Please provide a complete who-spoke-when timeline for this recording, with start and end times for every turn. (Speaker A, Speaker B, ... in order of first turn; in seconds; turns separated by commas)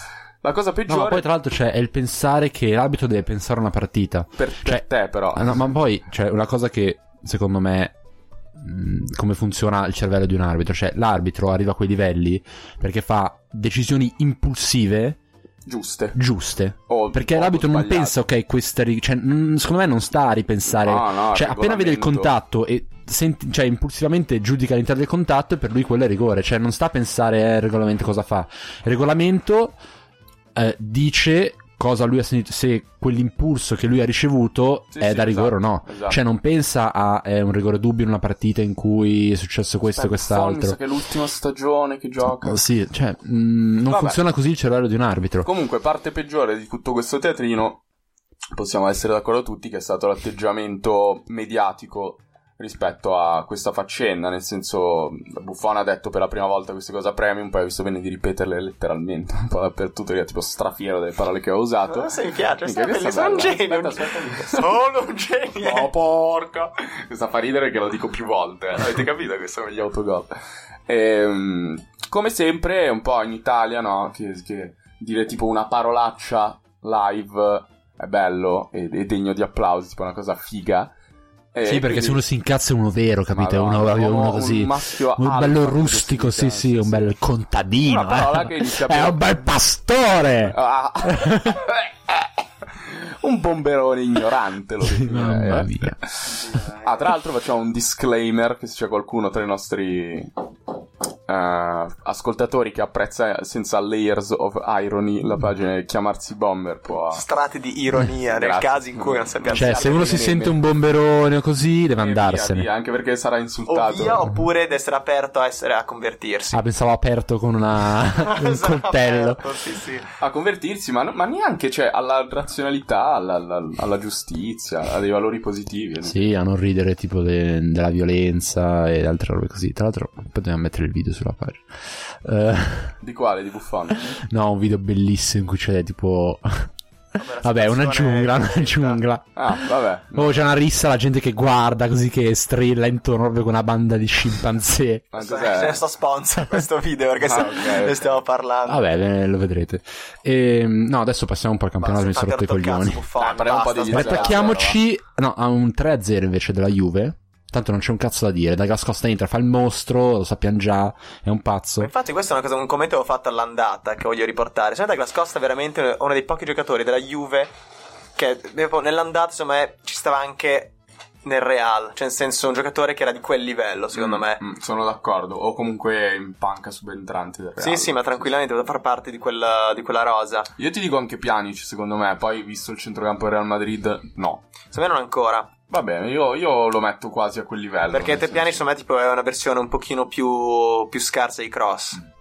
Speaker A: 0.4-1.3, Speaker B: 0.9-4.8, Speaker A: 4.4-5.6, Speaker B: 5.3-7.9, Speaker B: 8.6-15.2, Speaker A: 15.7-16.2, Speaker B: 16.1-29.8, Speaker A: 16.9-18.2, Speaker A: 20.7-22.3, Speaker B: 30.5-40.8, Speaker A: 34.9-36.2, Speaker A: 39.9-42.6, Speaker B: 42.4-45.5, Speaker A: 43.9-44.2, Speaker A: 45.4-47.8, Speaker A: 48.5-64.8, Speaker C: 61.9-65.9, Speaker A: 65.6-70.3, Speaker A: 70.9-80.9, Speaker A: 81.5-82.2, Speaker B: 81.7-91.6, Speaker A: 83.3-87.2, Speaker A: 87.8-89.4, Speaker A: 90.4-100.3, Speaker B: 94.8-96.0, Speaker C: 96.3-96.9, Speaker A: 101.3-107.2, Speaker C: 107.1-110.2, Speaker A: 108.2-110.6, Speaker B: 109.5-112.7, Speaker A: 112.0-114.3, Speaker C: 113.7-116.6, Speaker B: 116.5-119.6, Speaker C: 118.1-120.1, Speaker A: 120.2-126.3, Speaker B: 126.0-133.0, Speaker A: 133.0-134.2, Speaker B: 134.2-136.7, Speaker C: 137.1-139.0, Speaker B: 137.4-145.1, Speaker A: 139.3-140.5, Speaker A: 145.1-145.8, Speaker C: 145.2-148.8, Speaker A: 147.2-148.2, Speaker B: 148.7-153.0, Speaker C: 151.8-154.6, Speaker A: 153.2-154.8, Speaker B: 153.9-161.9, Speaker C: 161.8-167.5, Speaker C: 168.2-174.4, Speaker A: 173.9-178.3, Speaker C: 177.6-180.5, Speaker A: 180.6-184.4, Speaker C: 184.7-185.5, Speaker A: 185.7-188.6, Speaker C: 187.9-192.0